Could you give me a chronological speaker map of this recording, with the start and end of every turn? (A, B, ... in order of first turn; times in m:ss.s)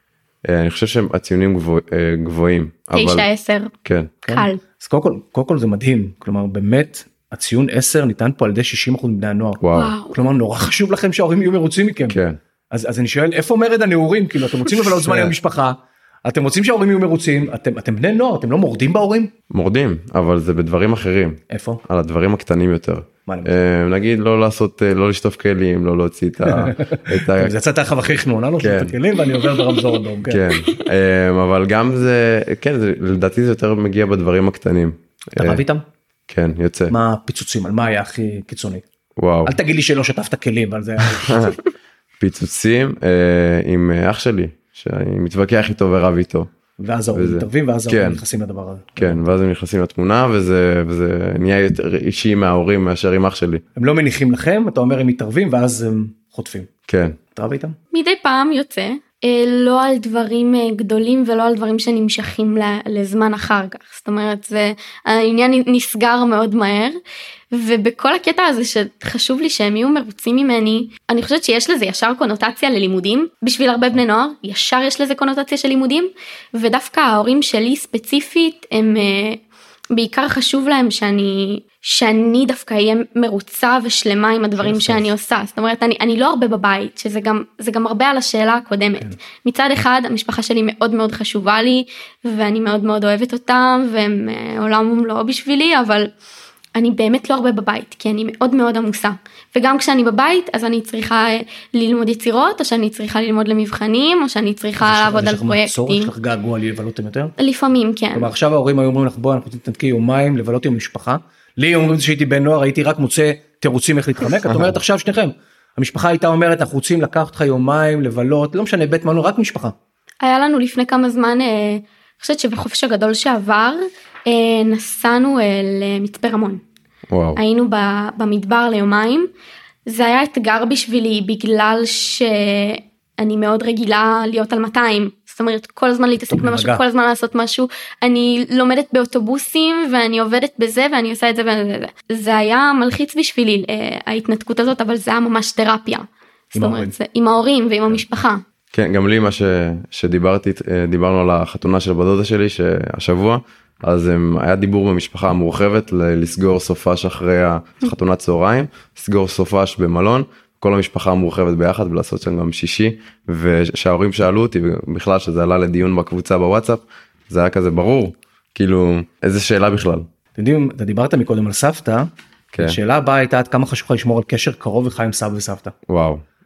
0:00.5-0:03.3 A
0:02.9-0:03.7 B
0:03.8-0:04.1 A
0:04.3-0:12.2 C
0:04.3-0:04.6 B
0:09.6-0:10.0 A
0:09.7-0:10.2 B
0:12.1-0:12.4 A
0:12.7-0:19.3 C
0:14.8-0:15.3 A
0:19.5-0:27.6 A
0:21.5-0:21.8 C
0:23.3-0:23.6 C
0:26.5-0:30.7 C
0:28.6-0:29.0 A
0:30.3-0:35.6 A
0:35.4-0:35.8 C
0:36.3-0:36.9 A
0:36.9-0:38.8 C
0:39.2-0:39.5 A
0:39.4-0:41.6 C
0:41.2-0:41.6 A
0:42.2-0:46.5 A
0:46.8-0:49.2 C
0:47.1-0:48.2 A
0:49.0-0:53.6 A
0:53.8-0:56.7 C
0:56.9-0:57.2 A
0:57.3-0:57.8 C
0:57.9-1:07.0 B
1:07.5-1:19.4 B
1:19.9-1:36.1 B
1:24.6-1:25.1 C
1:36.8-1:46.1 B
1:44.8-1:47.4 C
1:47.4-1:48.3 B
1:48.1-1:59.8 C
2:00.2-2:06.6 B
2:07.1-2:07.4 A
2:07.4-2:09.3 B
2:09.9-2:28.4 B
2:16.3-2:16.8 C
2:26.6-2:26.9 C
2:28.7-2:50.1 A
2:50.4-2:52.1 C
2:52.5-2:52.8 A
2:52.6-2:55.8 C
2:55.9-2:56.2 A